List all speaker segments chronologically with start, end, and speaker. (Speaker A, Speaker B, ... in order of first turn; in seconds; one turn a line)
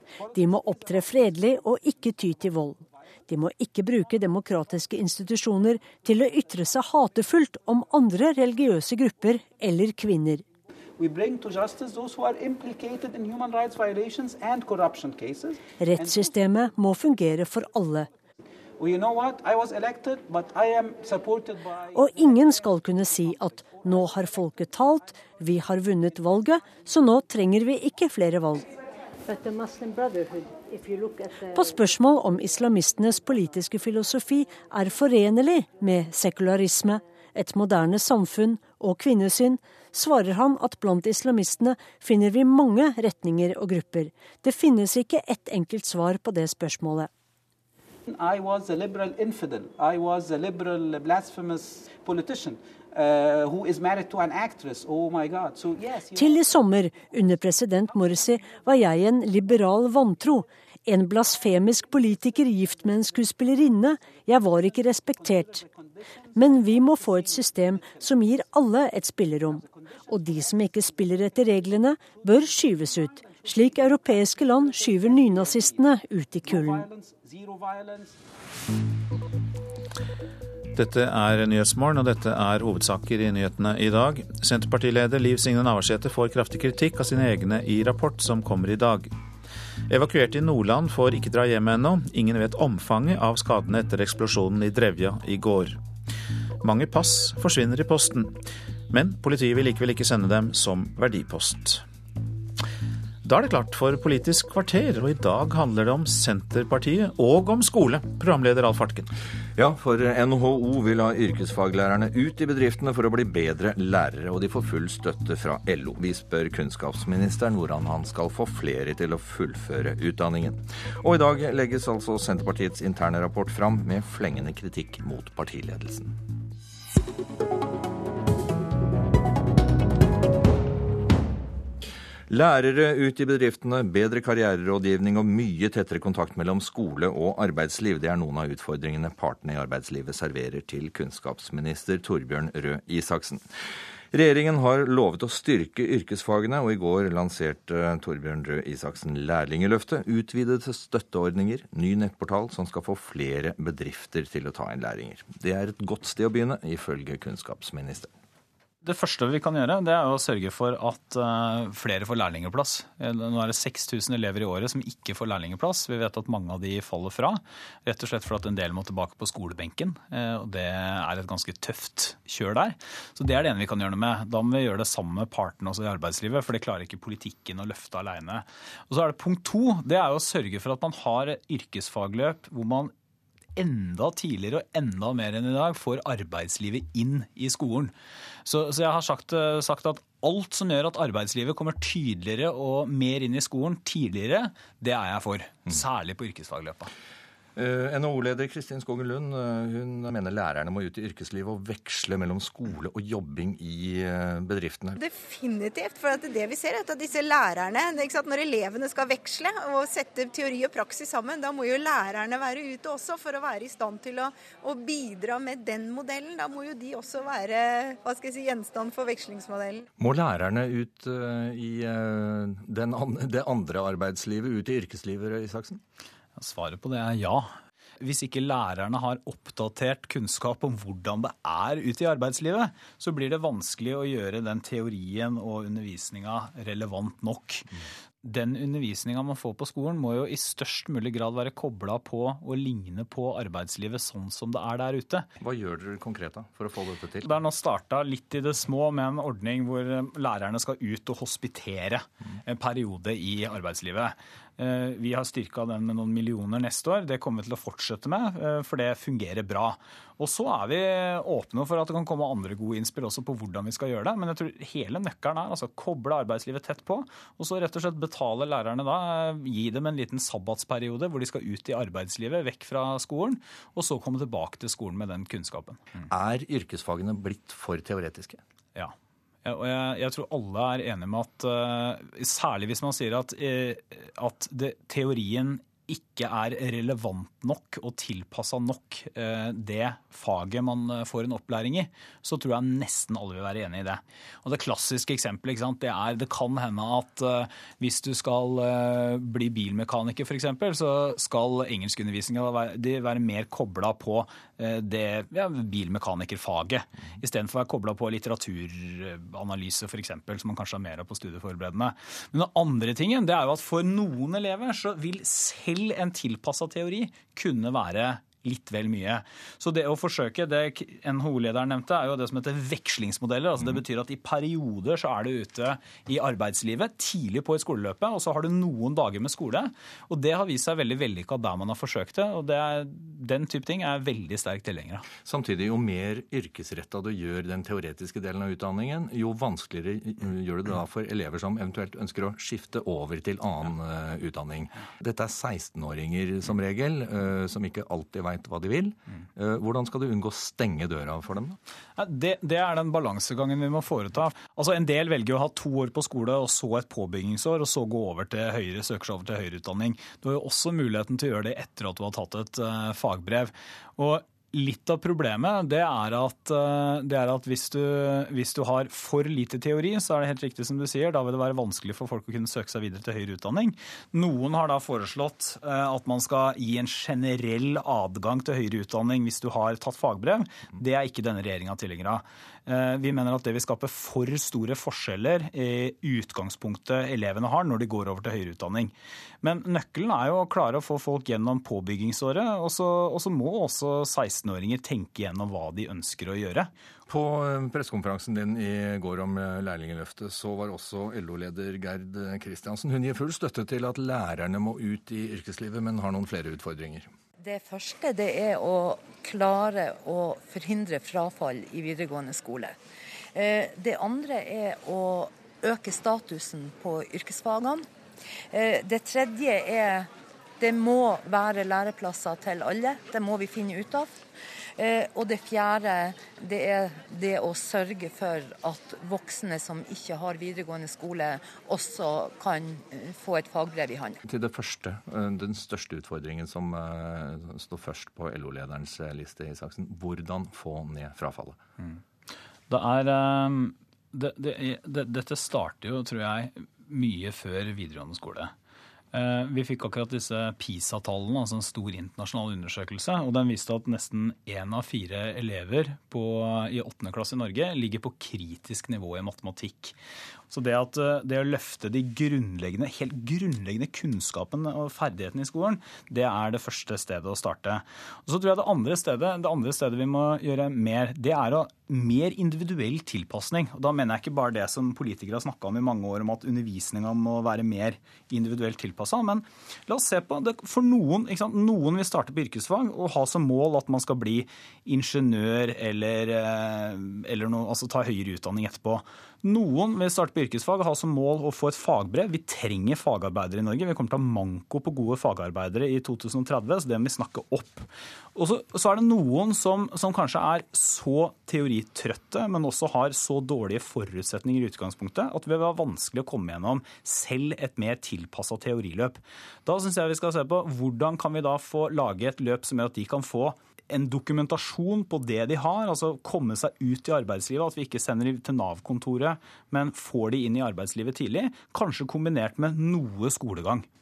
Speaker A: 0.3-10.4
Speaker B: 11.1-15.6
Speaker C: 13.6-14.1
Speaker A: 15.8-18.1
Speaker B: 18.9-21.6
Speaker C: 20.4-20.7
Speaker A: 21.9-28.6
Speaker A: 29.3-47.1
Speaker C: 48.3-51.3
Speaker B: 50.3-50.7
Speaker B: 52.1-52.5
Speaker B: 53.8-54.3
Speaker B: 54.9-55.9
Speaker A: 56.1-65.7
Speaker A: 66.3-76.9
Speaker D: 80.7-89.1
Speaker D: 89.9-95.8
Speaker D: 96.6-101.8
Speaker D: 103.2-109.1
Speaker E: 109.6-126.1
Speaker E: 132.3-143.4
Speaker E: 144.1-158.1
Speaker F: 158.8-182.9
Speaker F: 183.6-187.9
Speaker F: 188.4-196.9
Speaker E: 197.6-205.0
Speaker G: 205.0-219.8
Speaker E: 220.0-225.8
Speaker F: 226.4-237.7
Speaker F: 238.2-245.3
Speaker E: 245.4-247.4
Speaker F: 247.2-275.9
Speaker E: 276.1-278.4
Speaker F: 279.4-335.1
Speaker E: 335.3-351.6
Speaker F: 352.0-396.7
Speaker E: 397.1-407.1
Speaker C: 407.4-412.7
Speaker C: 413.4-417.8
Speaker C: 418.5-420.0
Speaker C: 420.6-424.1
Speaker C: 424.8-434.2
Speaker E: 434.2-441.6
Speaker F: 442.7-448.5
Speaker F: 449.1-459.9
Speaker F: 460.5-523.9